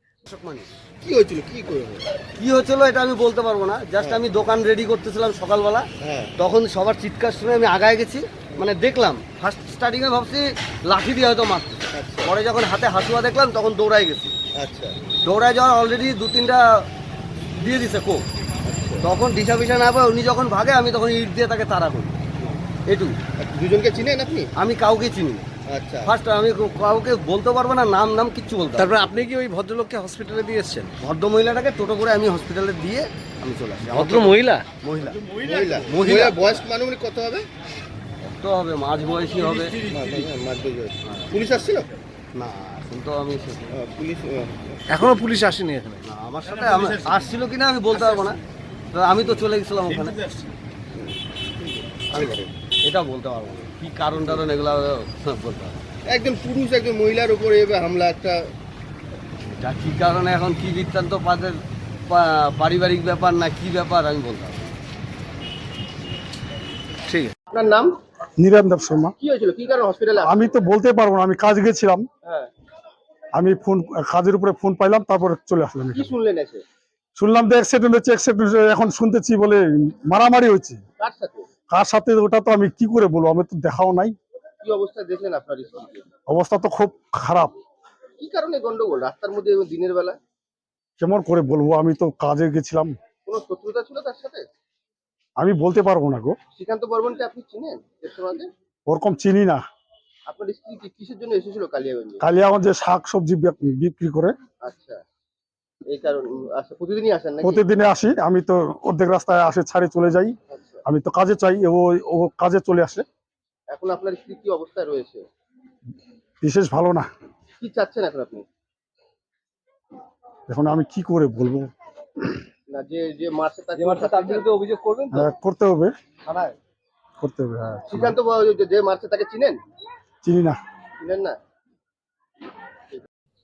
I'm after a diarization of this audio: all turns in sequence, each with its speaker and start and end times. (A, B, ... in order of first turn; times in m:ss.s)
0:00.3-0:00.7 A
0:01.0-0:02.1 B
0:02.4-0:05.9 A
0:06.0-0:06.3 B
0:06.4-0:14.3 A
0:11.9-0:12.3 B
0:14.6-0:15.0 B
0:15.2-0:16.6 A
0:17.6-0:18.2 A
0:18.6-0:19.1 B
0:19.0-0:22.2 A
0:22.9-0:23.2 A
0:23.4-0:24.5 B
0:24.6-0:25.5 A
0:25.7-0:26.1 B
0:26.0-0:29.2 A
0:28.8-0:31.0 C
0:31.0-0:36.4 A
0:33.8-0:34.7 C
0:35.4-0:37.5 B
0:38.2-0:39.8 A
0:39.9-0:41.9 B
0:41.0-0:41.3 A
0:42.4-0:43.8 A
0:43.7-0:44.8 B
0:44.9-0:46.0 C
0:46.0-0:48.4 A
0:48.9-0:50.3 A
0:51.0-0:52.2 B
0:52.1-0:55.8 A
0:56.1-0:58.5 B
0:59.5-1:04.7 A
1:07.1-1:07.3 C
1:07.5-1:07.9 B
1:08.4-1:09.1 D
1:09.2-1:10.5 B
1:10.2-1:12.1 D
1:12.2-1:12.5 B
1:13.4-1:16.1 D
1:15.9-1:16.6 B
1:17.2-1:20.8 D
1:21.0-1:21.5 B
1:21.7-1:24.2 D
1:24.6-1:26.0 B
1:26.3-1:27.6 D
1:28.2-1:30.2 B
1:31.0-1:33.0 D
1:33.3-1:34.5 B
1:35.4-1:36.4 D
1:36.5-1:38.5 B
1:38.9-1:39.6 D
1:40.3-1:42.2 B
1:42.2-1:44.3 D
1:44.6-1:45.0 B
1:45.9-1:47.6 B
1:47.4-1:53.1 D
1:50.5-1:50.8 B
1:53.7-1:55.2 B
1:56.4-1:57.1 D
1:57.6-1:58.4 B
2:00.5-2:01.7 D
2:02.7-2:04.5 B
2:03.8-2:05.3 A
2:05.1-2:05.9 D
2:06.3-2:06.5 A
2:07.2-2:08.1 D
2:07.9-2:09.6 B
2:10.2-2:10.6 D
2:11.0-2:11.4 B